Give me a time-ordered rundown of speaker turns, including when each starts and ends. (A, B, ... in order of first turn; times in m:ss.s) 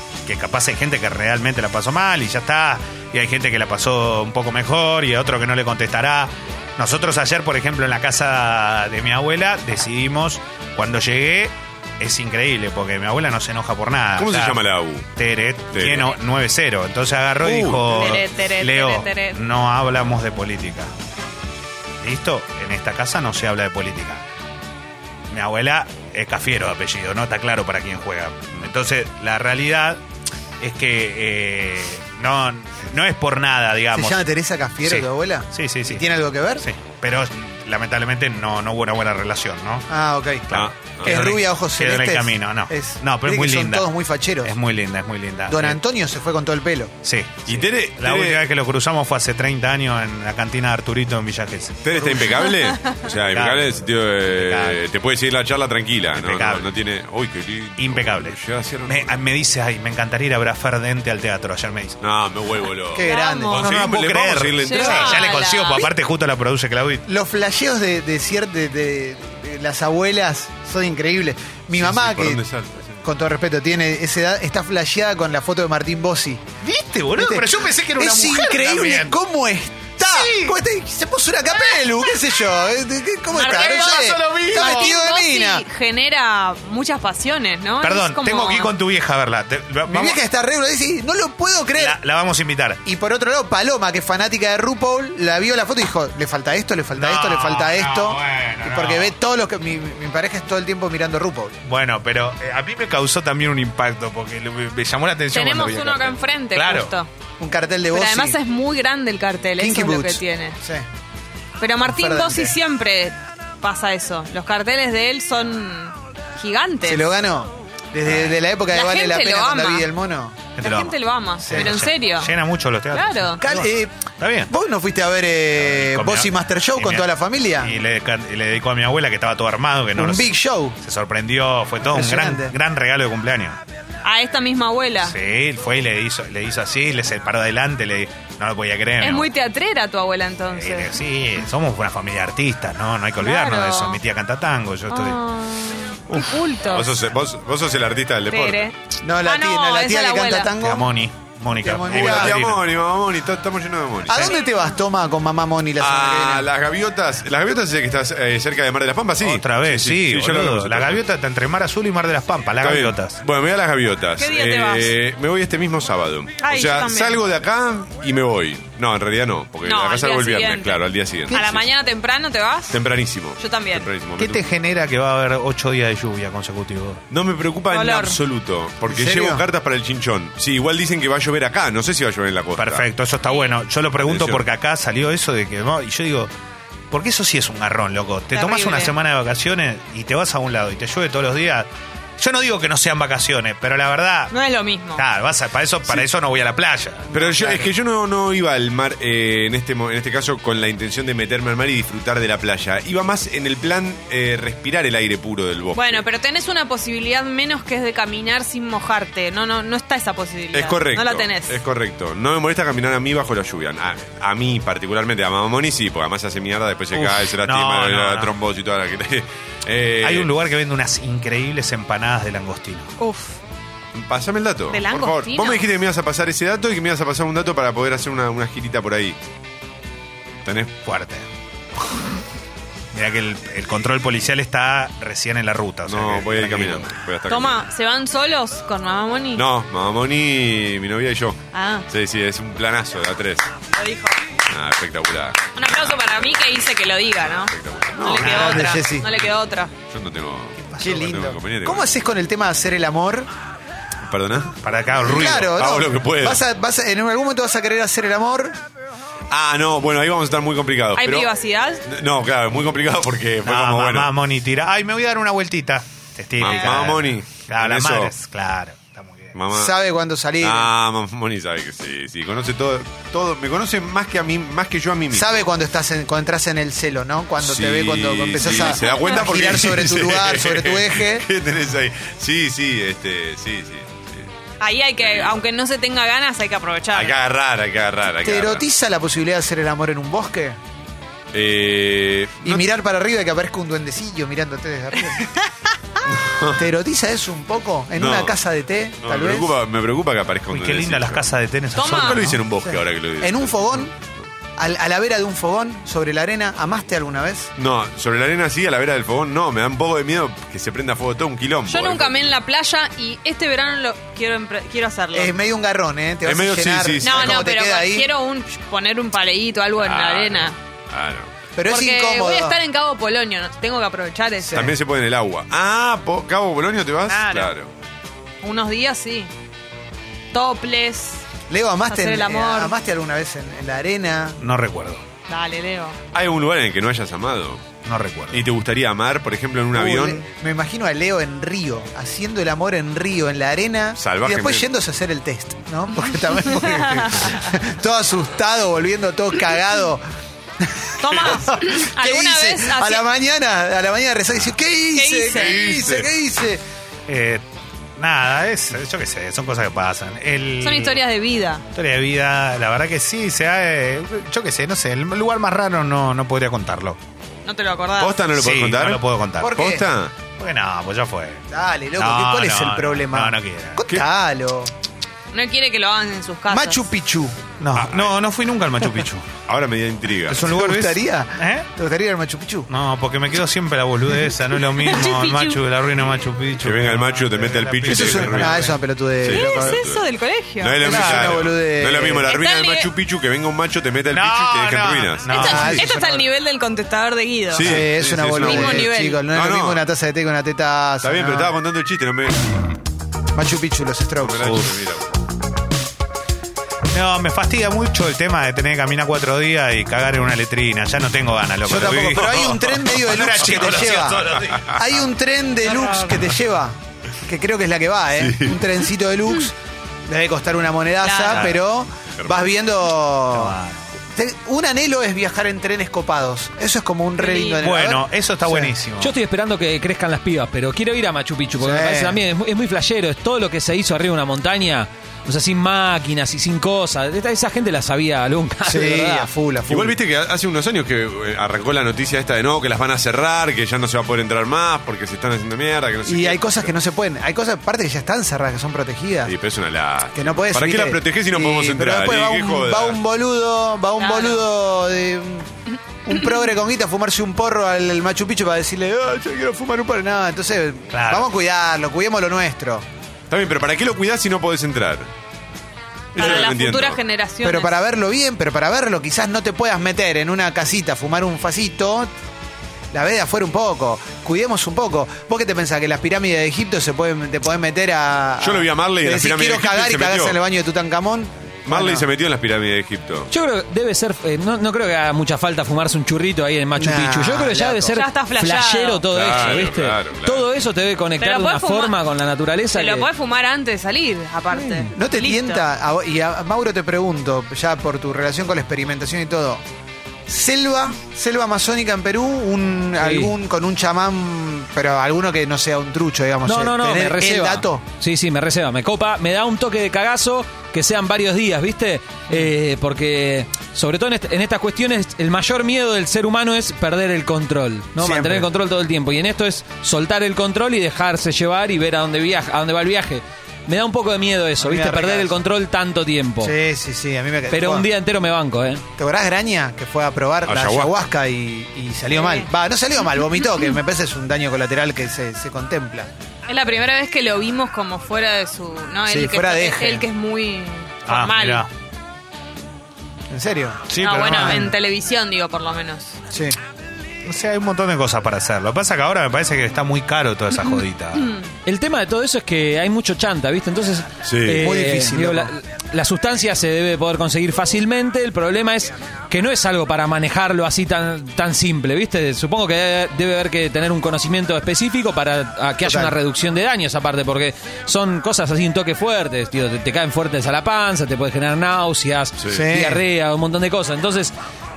0:00.3-0:14.6 A
0:14.2-0:15.1 B
0:15.2-0:20.9 A
0:15.7-0:16.1 B
0:17.4-0:18.0 B
0:17.9-0:19.4 C
0:22.0-0:24.2 A
0:25.3-0:30.0 A
0:30.6-0:34.2 A
0:33.9-0:36.6 D
0:34.8-0:36.0 A
0:36.6-0:39.9 A
0:39.9-0:44.6 D
0:40.5-0:43.9 A
0:40.5-0:41.3 B
0:44.4-0:45.8 A
0:45.5-0:46.9 D
0:47.0-0:52.4 A
0:47.5-0:48.4 B
0:51.8-0:59.2 B
0:52.7-0:53.0 C
0:53.3-0:54.8 A
0:56.2-0:56.7 A
0:57.8-1:02.0 A
1:02.0-1:05.3 B
1:02.9-1:03.6 D
1:03.0-1:03.7 C
1:03.5-1:07.1 A
1:04.6-1:05.9 C
1:07.1-1:12.4 D
1:11.7-1:13.0 B
1:13.0-1:16.4 D
1:16.6-1:19.2 A
1:17.2-1:25.6 D
1:20.0-1:20.6 A
1:23.3-1:28.7 C
1:23.4-1:25.0 A
1:27.8-1:30.2 A
1:29.9-1:32.0 D
1:31.8-1:32.8 A
1:32.8-1:41.6 D
1:37.0-1:39.1 A
1:41.6-1:46.9 A
1:45.3-1:47.1 C
1:47.4-1:48.4 D
1:47.9-1:50.6 C
1:49.6-1:50.9 D
1:51.6-1:57.1 C
1:51.8-1:52.6 D
1:56.8-2:00.6 D
1:58.7-1:59.9 C
2:00.6-2:04.5 A
2:00.6-2:02.3 C
2:01.5-2:01.8 D
2:02.9-2:03.4 C
2:03.4-2:03.9 D
2:04.5-2:07.8 D
2:05.6-2:13.6 A
2:10.0-2:10.8 D
2:11.9-2:12.6 D
2:14.0-2:15.2 C
2:15.1-2:19.3 A
2:19.0-2:21.0 C
2:20.5-2:25.2 A
2:23.2-2:24.0 C
2:24.9-2:27.0 C
2:26.2-2:28.7 B
2:28.3-2:30.5 C
2:29.0-2:30.9 D
2:30.6-2:32.6 A
2:31.5-2:32.4 D
2:31.9-2:34.3 B
2:34.1-2:36.5 D
2:34.1-2:34.7 C
2:35.8-2:41.0 B
2:39.2-2:43.2 A
2:42.6-2:51.7 B
2:44.2-2:44.9 C
2:46.4-2:47.2 C
2:49.6-2:52.8 C
2:52.7-2:54.5 B
2:53.4-2:53.9 C
2:54.2-2:57.0 A
2:57.1-3:02.9 B
2:57.7-2:58.2 C
2:58.9-2:59.4 D
3:02.6-3:06.3 A
3:03.3-3:03.5 C
3:04.0-3:04.4 B
3:06.9-3:14.3 A
3:08.3-3:08.9 C
3:14.3-3:15.0 C
3:15.0-3:17.7 A
3:17.1-3:26.0 B
3:25.7-3:31.6 C
3:30.5-3:40.3 B
3:36.9-3:38.3 A
3:40.0-3:42.9 A
3:43.0-3:43.4 C
3:43.9-3:49.2 B
3:44.7-3:45.6 C
3:50.4-3:50.7 B
3:50.8-3:51.2 A
3:52.9-3:56.9 A
3:55.9-3:57.6 B
3:57.3-3:59.5 C
3:59.4-4:03.5 B
4:01.5-4:01.9 C
4:03.7-4:04.2 C
4:04.5-4:06.2 B
4:05.6-4:09.7 C
4:07.5-4:09.3 B
4:08.1-4:09.1 D
4:09.9-4:11.9 B
4:10.6-4:11.0 A
4:10.8-4:13.3 D
4:14.1-4:16.4 B
4:14.6-4:15.6 A
4:15.0-4:18.6 D
4:19.3-4:21.3 B
4:21.0-4:21.8 C
4:21.8-4:24.1 B
4:23.4-4:29.3 A
4:26.4-4:28.1 B
4:26.4-4:26.8 C
4:29.4-4:29.7 B
4:29.5-4:30.7 D
4:30.4-4:35.5 B
4:35.1-4:41.3 D
4:37.4-4:44.3 B
4:38.8-4:39.2 C
4:44.6-4:47.2 C
4:45.0-4:45.4 B
4:46.9-4:48.6 B
4:48.2-4:50.6 D
4:51.3-4:52.6 B
4:52.4-4:55.4 D
4:56.1-4:56.6 B
4:56.5-4:59.6 D
4:58.0-4:58.4 B
4:59.0-5:04.3 B
5:00.5-5:02.4 A
5:01.8-5:02.2 C
5:02.6-5:03.9 D
5:04.6-5:07.5 D
5:07.6-5:12.4 B
5:11.7-5:15.4 C
5:15.1-5:18.1 D
5:16.3-5:17.4 B
5:17.0-5:20.6 C
5:19.8-5:21.3 B
5:21.6-5:22.6 D
5:21.7-5:24.7 C
5:24.4-5:24.8 D
5:24.5-5:27.7 B
5:27.1-5:27.5 C
5:28.4-5:29.3 C
5:30.3-5:31.2 C
5:31.5-5:34.4 D
5:31.9-5:32.8 C
5:34.4-5:35.0 A
5:35.3-5:36.0 C
5:36.1-5:37.6 B
5:37.8-5:38.4 A
5:38.3-5:40.2 B
5:39.7-5:50.0 D
5:44.0-5:44.7 B
5:46.7-5:47.4 C
5:50.6-5:56.6 D
5:51.0-5:53.0 C
5:55.0-5:55.8 C
5:55.3-5:56.1 B
5:57.1-5:57.4 A
5:58.0-6:01.0 A
6:00.6-6:01.6 C
6:01.7-6:07.0 A
6:07.4-6:08.2 C
6:08.0-6:10.1 B
6:08.4-6:09.5 A
6:09.4-6:09.9 D
6:10.4-6:13.8 A
6:11.5-6:14.7 D
6:15.3-6:16.9 C
6:16.5-6:17.4 D
6:17.6-6:19.3 A
6:17.8-6:18.2 B
6:19.5-6:20.5 B
6:20.3-6:21.7 A
6:20.3-6:22.7 D
6:22.7-6:28.8 A
6:24.7-6:25.6 C
6:26.0-6:30.0 B
6:27.9-6:29.8 D
6:29.3-6:30.9 C
6:30.6-6:35.5 B
6:30.8-6:32.3 D
6:30.9-6:31.4 A
6:32.2-6:32.9 C
6:34.1-6:35.8 A
6:35.3-6:37.8 C
6:35.3-6:36.3 D
6:37.5-6:39.8 B
6:37.6-6:41.5 D
6:38.4-6:39.2 C
6:41.0-6:42.5 B
6:43.3-6:44.6 D
6:44.2-6:45.1 B
6:44.4-6:44.7 A
6:46.9-6:55.0 A
6:51.7-6:59.5 D
6:51.7-6:54.7 B
6:58.2-6:58.6 B
7:00.1-7:03.6 D
7:01.0-7:01.4 C
7:01.3-7:01.6 A
7:03.3-7:03.9 A
7:04.1-7:08.7 D
7:07.2-7:07.6 C
7:07.6-7:09.1 A
7:09.0-7:19.3 E
7:11.6-7:12.2 D
7:18.6-7:20.0 D
7:19.7-7:26.7 B
7:26.1-7:29.3 D
7:29.3-7:33.0 B
7:30.2-7:35.5 D
7:34.0-7:34.4 C
7:36.0-7:42.8 D
7:40.9-7:41.3 A
7:43.3-7:45.1 B
7:46.1-7:47.7 C
7:46.2-7:47.0 B
7:47.4-7:52.1 D
7:52.9-8:02.1 D
7:58.4-8:00.4 B
8:01.7-8:03.3 B
8:03.3-8:13.1 E
8:06.8-8:08.0 D
8:07.9-8:09.0 C
8:09.1-8:10.5 B
8:11.2-8:12.0 C
8:12.7-8:15.6 C
8:14.8-8:19.6 D
8:20.3-8:27.8 D
8:23.0-8:23.3 E
8:26.5-8:46.6 E
8:38.0-8:38.5 D
8:44.6-8:45.4 D
8:46.4-8:47.9 D
8:47.5-8:48.8 E
8:49.0-8:56.1 D
8:50.5-8:51.0 B
8:52.2-8:52.5 C
8:56.5-9:01.7 C
8:59.1-9:00.1 D
9:01.1-9:01.7 A
9:03.3-9:04.7 D
9:03.9-9:04.8 A
9:04.0-9:06.2 C
9:06.3-9:06.6 D
9:07.2-9:11.4 A
9:11.2-9:11.5 C
9:11.6-9:34.3 E
9:14.2-9:14.7 B
9:14.5-9:15.5 D
9:25.8-9:26.2 D
9:32.5-9:33.0 D